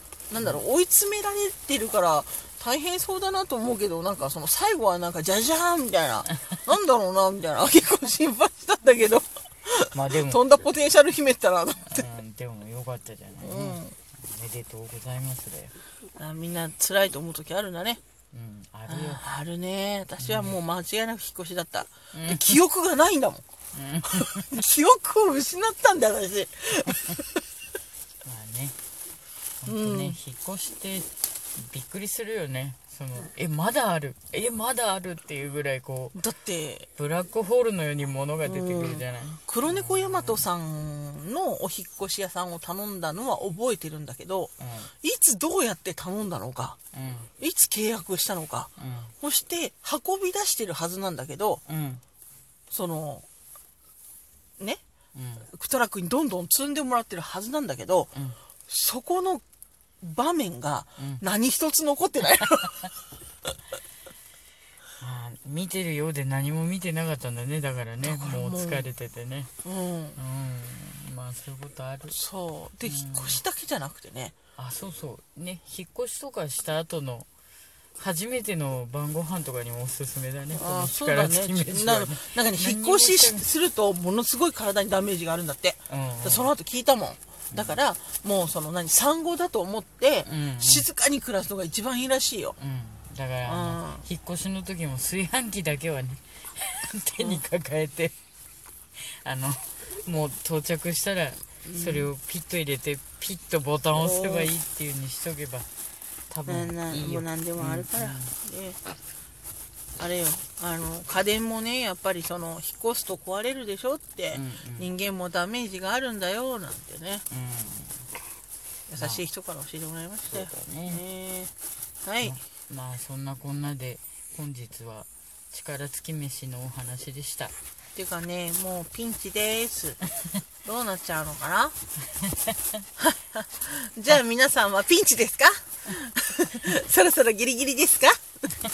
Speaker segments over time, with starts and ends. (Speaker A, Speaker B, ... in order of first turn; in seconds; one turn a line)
Speaker A: 0.3-12.1
Speaker B: 9.9-10.4
Speaker B: 11.9-15.8
Speaker A: 13.4-13.9
Speaker A: 16.1-18.0
Speaker B: 18.3-19.2
Speaker A: 18.9-23.4
Speaker B: 20.2-20.6
Speaker B: 22.1-22.6
Speaker B: 23.7-24.5
Speaker A: 24.1-27.4
Speaker B: 28.2-28.8
Speaker B: 29.6-36.2
Speaker A: 29.6-30.2
Speaker A: 36.1-36.9
Speaker B: 37.0-40.4
Speaker A: 38.4-46.8
Speaker B: 44.6-44.9
Speaker B: 46.9-47.3
Speaker A: 47.4-51.6
Speaker B: 48.8-49.1
Speaker B: 51.7-52.0
Speaker A: 52.7-53.2
Speaker B: 55.1-55.5
Speaker A: 55.5-58.1
Speaker B: 58.1-58.4
Speaker A: 58.7-59.4
Speaker A: 60.0-62.9
Speaker B: 65.0-69.5
Speaker A: 68.0-68.9
Speaker A: 69.6-70.2
Speaker B: 70.2-72.2
Speaker A: 72.1-74.3
Speaker B: 72.8-73.4
Speaker B: 74.6-77.3
Speaker B: 78.0-83.5
Speaker A: 80.5-92.6
Speaker B: 85.9-86.5
Speaker B: 87.5-87.8
Speaker B: 90.2-90.9
Speaker B: 92.6-98.1
Speaker A: 93.5-94.0
Speaker B: 99.0-105.7
Speaker A: 101.6-102.1
Speaker A: 103.9-104.5
Speaker B: 106.3-108.3
Speaker A: 106.5-108.8
Speaker A: 110.0-117.2
Speaker B: 114.3-114.9
Speaker B: 117.3-118.1
Speaker A: 118.9-122.4
Speaker B: 119.0-119.2
Speaker B: 120.3-121.0
Speaker B: 122.2-127.5
Speaker A: 127.9-130.0
Speaker A: 130.6-131.8
Speaker B: 132.1-132.6
Speaker A: 133.0-138.2